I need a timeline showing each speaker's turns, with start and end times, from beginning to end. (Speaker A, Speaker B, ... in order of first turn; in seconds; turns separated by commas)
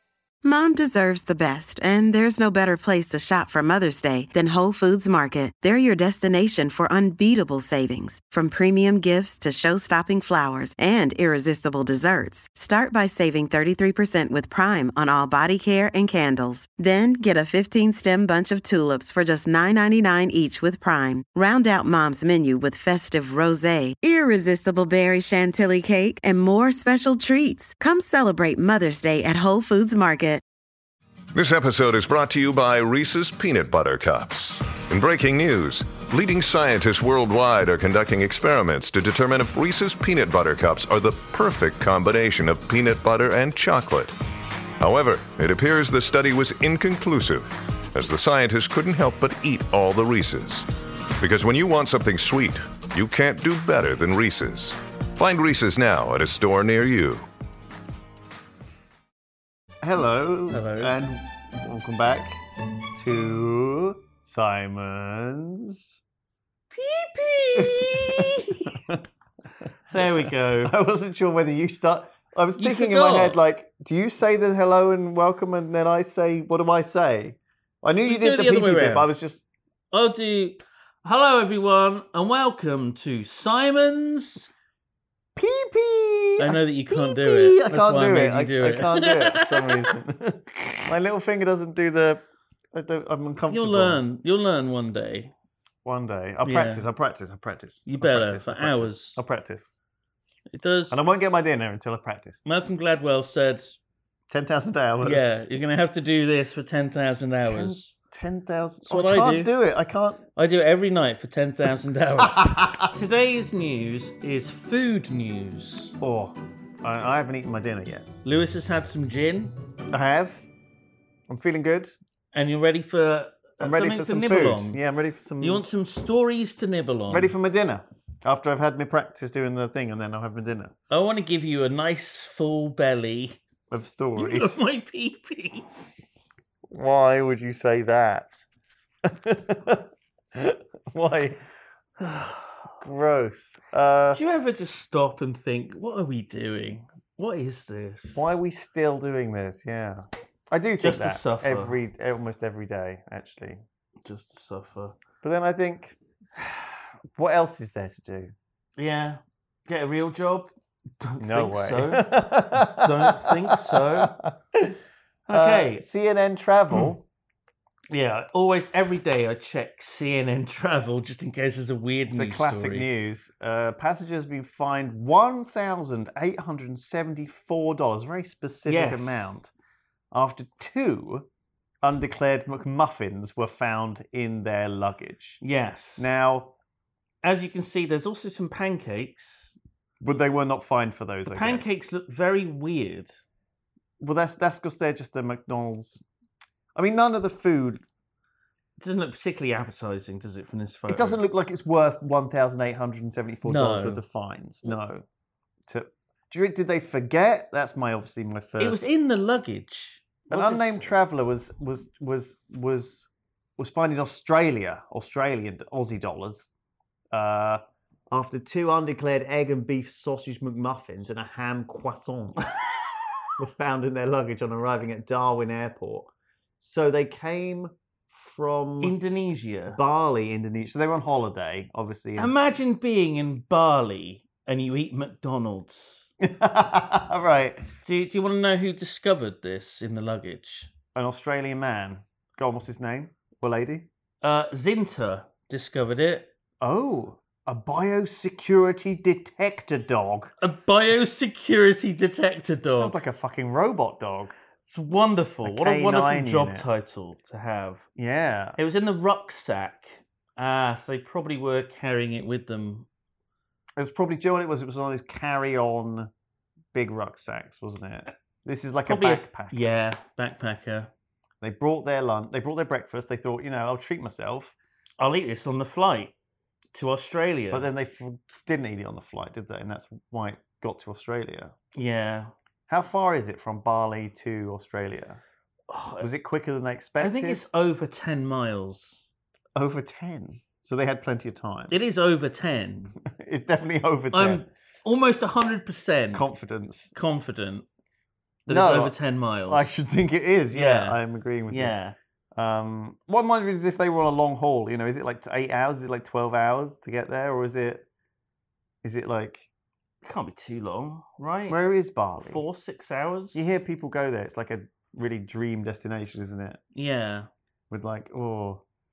Speaker A: 0.4-30.4, Speaker B: 31.3-44.1, Speaker B: 44.8-57.3, Speaker C: 59.8-62.4, Speaker D: 60.5-60.9, Speaker C: 62.9-66.0, Speaker D: 66.7-68.8, Speaker C: 67.5-69.0, Speaker D: 69.9-70.7, Speaker C: 69.9-79.4, Speaker D: 72.6-73.4, Speaker D: 78.0-79.1, Speaker D: 79.9-84.5, Speaker C: 85.3-94.0, Speaker D: 86.4-89.9, Speaker D: 93.5-95.3, Speaker C: 95.8-99.7, Speaker D: 96.4-96.8, Speaker D: 97.8-99.2, Speaker D: 100.5-101.0, Speaker C: 100.9-102.4, Speaker D: 102.4-103.8, Speaker C: 104.3-105.4, Speaker D: 105.0-107.9, Speaker C: 107.4-110.2, Speaker D: 108.8-109.5, Speaker D: 110.3-115.9, Speaker C: 112.2-112.9, Speaker C: 116.0-118.1, Speaker D: 118.2-119.6, Speaker C: 119.9-120.5, Speaker C: 121.3-121.9, Speaker D: 122.3-124.8, Speaker C: 123.6-125.6, Speaker D: 125.4-127.3, Speaker C: 127.1-130.7, Speaker D: 130.9-133.4, Speaker C: 133.7-134.6, Speaker D: 134.2-135.9, Speaker C: 136.7-138.4, Speaker C: 139.0-141.4, Speaker D: 142.0-142.7, Speaker C: 142.8-144.2, Speaker D: 144.1-148.3, Speaker C: 148.1-153.6, Speaker D: 150.8-151.8, Speaker D: 154.0-155.0, Speaker C: 155.2-156.0, Speaker C: 157.1-158.3, Speaker D: 158.8-164.2, Speaker C: 161.2-164.8, Speaker D: 165.3-165.8, Speaker C: 165.3-167.0, Speaker D: 167.9-172.9, Speaker C: 172.1-179.5, Speaker D: 178.7-179.3, Speaker C: 180.1-181.3, Speaker C: 181.8-185.4, Speaker D: 185.4-186.1, Speaker C: 186.0-186.5, Speaker D: 187.2-189.5, Speaker C: 190.0-191.8, Speaker D: 191.2-193.2, Speaker C: 194.0-196.0, Speaker C: 196.7-197.8, Speaker D: 198.8-201.2, Speaker C: 200.9-205.1, Speaker D: 203.4-204.0, Speaker C: 205.7-208.8, Speaker D: 208.6-211.0, Speaker C: 210.3-216.5, Speaker C: 217.1-222.5, Speaker C: 223.4-228.9, Speaker D: 228.8-229.8, Speaker C: 229.8-232.3, Speaker D: 232.2-236.1, Speaker C: 236.2-237.7, Speaker D: 237.8-240.7, Speaker C: 240.9-243.9, Speaker D: 244.2-246.3, Speaker C: 246.6-250.3, Speaker D: 250.4-252.9, Speaker C: 252.7-254.3, Speaker D: 254.6-257.9, Speaker C: 255.4-256.6, Speaker C: 257.9-258.6, Speaker D: 258.6-262.9, Speaker C: 263.8-266.1, Speaker C: 266.7-269.6, Speaker D: 268.9-270.9, Speaker C: 271.4-274.5, Speaker D: 275.0-276.1, Speaker D: 276.7-277.7, Speaker C: 277.5-281.5, Speaker D: 281.7-282.3, Speaker C: 282.7-285.2, Speaker D: 285.7-286.1, Speaker C: 286.0-287.4, Speaker D: 287.0-289.0, Speaker C: 289.5-291.7, Speaker D: 291.7-292.9, Speaker C: 293.0-294.4, Speaker D: 294.1-296.2, Speaker C: 296.1-296.9, Speaker D: 296.9-297.6, Speaker C: 298.5-298.9, Speaker D: 298.5-299.7, Speaker C: 299.5-301.7, Speaker D: 300.5-301.9, Speaker C: 302.3-307.9, Speaker C: 308.8-309.5, Speaker D: 310.0-311.6, Speaker C: 311.5-312.4, Speaker D: 312.2-313.5, Speaker C: 313.3-316.6, Speaker D: 316.7-317.3, Speaker C: 317.7-318.6